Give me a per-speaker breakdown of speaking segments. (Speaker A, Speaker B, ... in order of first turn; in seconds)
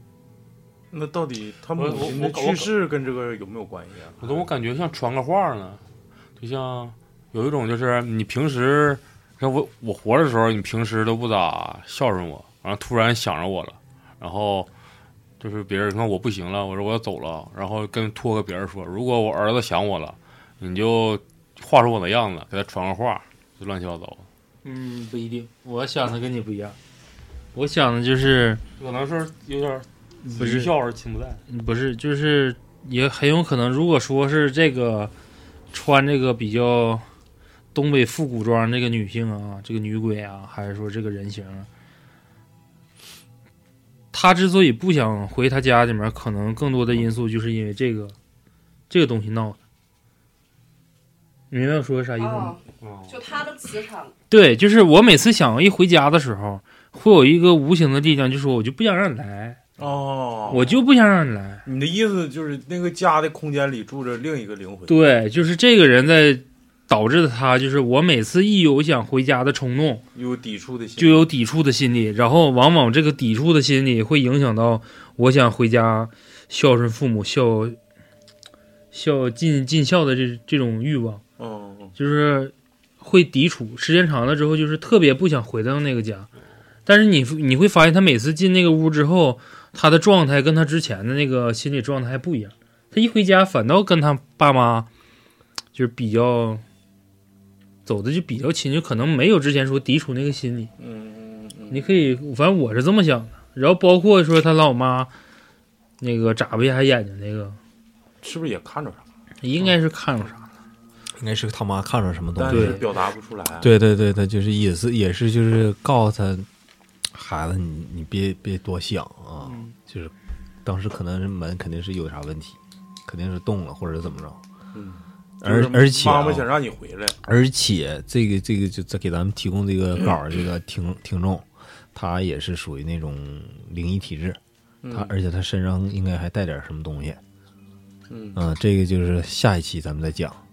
Speaker A: 0.9-4.5, 59.8-60.8, 61.7-65.0, 70.2-71.3, 81.4-82.0, 100.8-101.9, 108.2-109.0, 112.4-113.7, 124.7-127.2, 134.8-135.1, 138.1-138.4
Speaker B: 1.8-2.7, 4.2-5.8, 6.4-14.7, 15.4-24.3, 28.8-31.4, 52.8-53.2
Speaker C: 24.6-26.8, 27.5-28.6, 30.3-30.7, 31.5-35.1, 35.7-37.0, 37.7-41.7, 44.1-48.1, 48.9-49.6, 51.5-52.6, 54.3-59.6, 60.5-61.7, 64.9-70.0, 71.0-77.8, 78.9-81.2, 82.0-86.3, 86.9-94.9, 95.7-96.6, 97.8-100.7, 101.7-105.1, 106.0-107.6, 109.4-110.5, 112.5-112.8, 119.4-119.7
Speaker D: 52.2-54.1
Speaker E: 111.2-112.8, 113.6-116.5, 117.1-120.1, 120.7-124.4, 125.4-126.5, 127.2-134.4, 134.9-137.2, 138.4-140.4